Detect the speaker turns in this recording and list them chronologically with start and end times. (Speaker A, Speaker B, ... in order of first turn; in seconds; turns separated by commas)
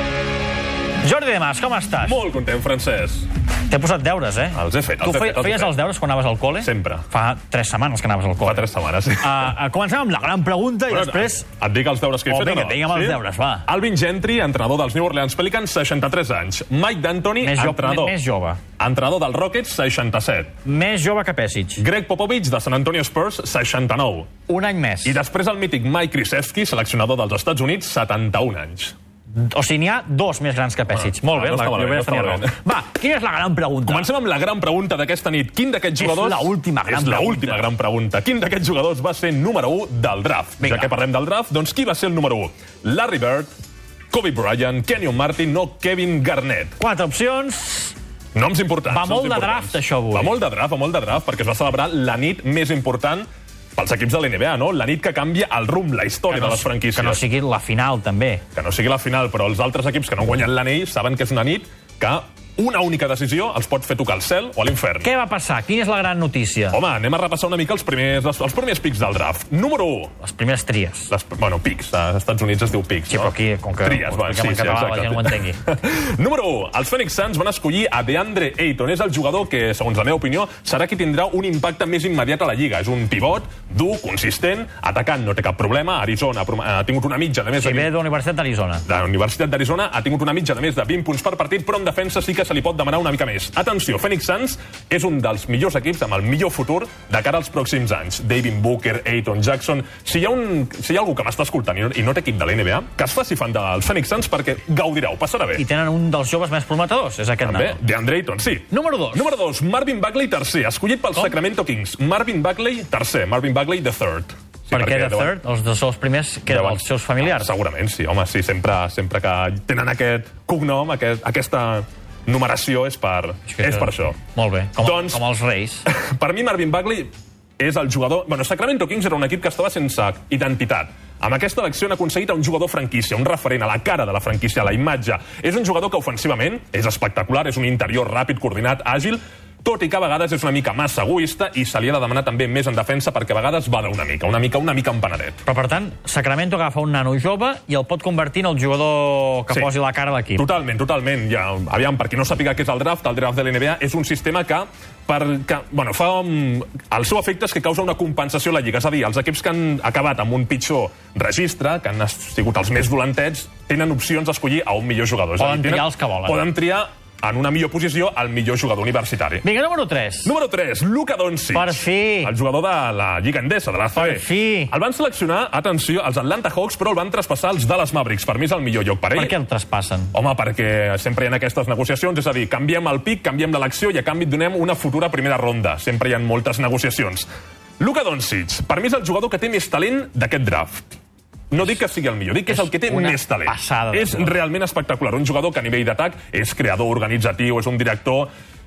Speaker A: 1.0-2.2, Speaker B: 2.0-3.3, Speaker A: 3.7-8.7, Speaker B: 4.5-5.8, Speaker B: 6.6-7.1, Speaker B: 8.4-9.6, Speaker A: 9.2-11.4, Speaker B: 10.9-18.2, Speaker A: 12.3-13.7, Speaker A: 17.4-18.6, Speaker B: 18.8-20.5, Speaker A: 20.6-21.8, Speaker B: 21.8-24.3, Speaker A: 24.5-25.2, Speaker B: 25.1-28.9, Speaker A: 29.4-34.1, Speaker B: 30.9-32.6, Speaker B: 33.9-43.5, Speaker A: 36.0-37.7, Speaker A: 40.6-40.9, Speaker B: 44.1-46.8, Speaker A: 46.8-48.0, Speaker B: 48.4-53.3, Speaker A: 48.9-50.4, Speaker B: 53.8-57.2, Speaker A: 56.3-58.4, Speaker B: 58.5-65.1, Speaker A: 65.0-66.8, Speaker B: 66.7-70.2, Speaker A: 70.2-71.1, Speaker B: 71.1-87.9, Speaker A: 73.1-75.6, Speaker A: 87.6-88.8, Speaker B: 88.9-105.6, Speaker A: 105.6-107.8, Speaker B: 107.4-115.4, Speaker A: 108.7-109.3, Speaker A: 114.7-117.5, Speaker B: 116.5-124.2, Speaker A: 123.5-125.8, Speaker B: 124.8-125.2, Speaker B: 125.9-145.4, Speaker A: 145.5-150.5, Speaker B: 150.4-169.4, Speaker A: 165.4-166.4, Speaker A: 169.4-170.3, Speaker B: 170.2-179.3, Speaker A: 171.5-172.3, Speaker A: 173.9-174.7, Speaker A: 179.1-180.1, Speaker B: 180.1-187.3, Speaker B: 187.8-190.9, Speaker B: 191.5-198.3, Speaker A: 192.5-194.4